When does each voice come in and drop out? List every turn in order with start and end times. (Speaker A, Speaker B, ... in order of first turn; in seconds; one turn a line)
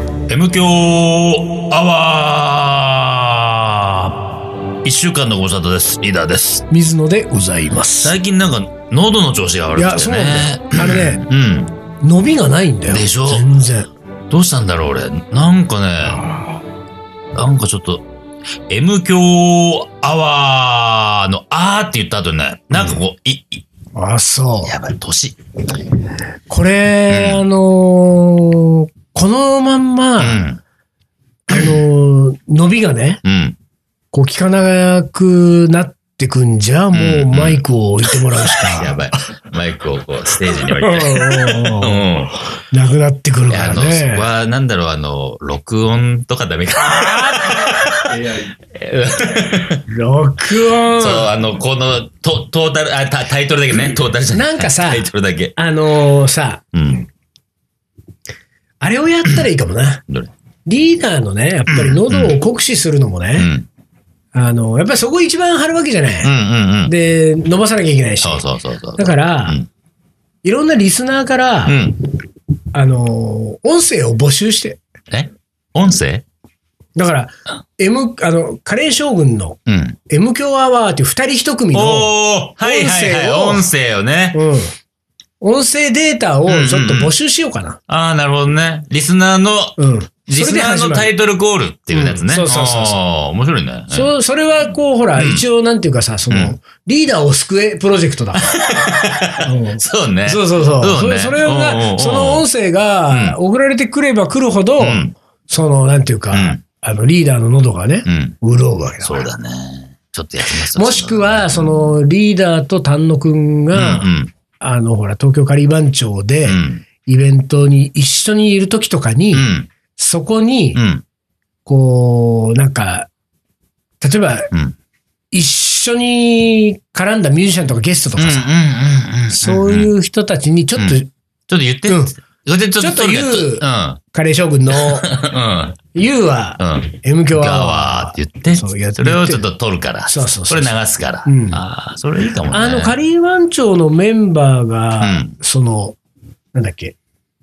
Speaker A: 0.3-4.2
Speaker A: 4.8-6.6
Speaker B: 6.7-8.1
Speaker A: 8.0-11.7
Speaker B: 9.8-11.2
Speaker B: 12.0-13.9
Speaker A: 12.9-13.5
Speaker A: 14.3-16.2
Speaker B: 16.1-16.6
Speaker A: 17.3-18.1
Speaker A: 18.7-23.7
Speaker B: 23.9-24.7
Speaker A: 24.6-25.4
Speaker B: 26.5-30.4
Speaker A: 27.1-27.4
Speaker A: 30.2-30.6
Speaker B: 31.5-33.2
Speaker A: 33.2-33.5
Speaker B: 34.1-39.0
Speaker A: 36.9-42.3
Speaker B: 40.4-42.1
Speaker B: 42.7-44.3
Speaker A: 43.5-49.8
Speaker B: 46.8-47.8
Speaker B: 49.9-51.3
Speaker A: 51.0-55.5
Speaker B: 54.3-56.7
Speaker A: 56.7-57.0
Speaker B: 58.8-60.0
Speaker B: 60.6-63.5
Speaker A: 61.7-62.4
Speaker A: 63.4-63.6
Speaker B: 64.3-66.3
Speaker A: 66.2-66.9
Speaker B: 66.8-68.5
Speaker A: 68.2-69.7
Speaker B: 69.0-69.6
Speaker B: 70.4-71.9
Speaker A: 71.7-72.0
Speaker B: 72.7-74.8
Speaker A: 75.1-76.2
Speaker B: 77.0-79.6
Speaker A: 79.7-80.0
Speaker B: 80.1-83.7
Speaker A: 81.7-84.4
Speaker B: 84.3-84.7
Speaker B: 85.4-87.8
Speaker A: 86.5-87.1
Speaker A: 87.9-94.1
Speaker B: 89.8-91.1
Speaker B: 91.9-93.0
Speaker B: 93.9-98.7
Speaker A: 95.2-95.4
Speaker A: 96.3-96.6
Speaker A: 98.4-102.5
Speaker B: 99.4-109.3
Speaker A: 103.1-103.4
Speaker A: 104.8-105.1
Speaker A: 106.3-106.6
Speaker A: 108.1-108.3
Speaker A: 109.0-112.0
Speaker B: 110.5-114.1
Speaker A: 113.7-114.3
Speaker B: 114.6-120.8
Speaker A: 116.4-116.8
Speaker A: 119.3-119.7
Speaker A: 120.8-121.0
Speaker B: 121.7-123.1
Speaker B: 124.0-124.5
Speaker B: 125.3-128.5
Speaker A: 128.2-129.9
Speaker B: 129.4-131.1
Speaker A: 130.8-134.0
Speaker B: 131.9-132.2
Speaker B: 132.8-135.1
Speaker A: 134.7-135.8
Speaker B: 135.9-139.4
Speaker A: 136.6-142.9
Speaker B: 140.1-141.6
Speaker B: 142.5-146.0
Speaker A: 145.0-145.3
Speaker B: 146.5-146.9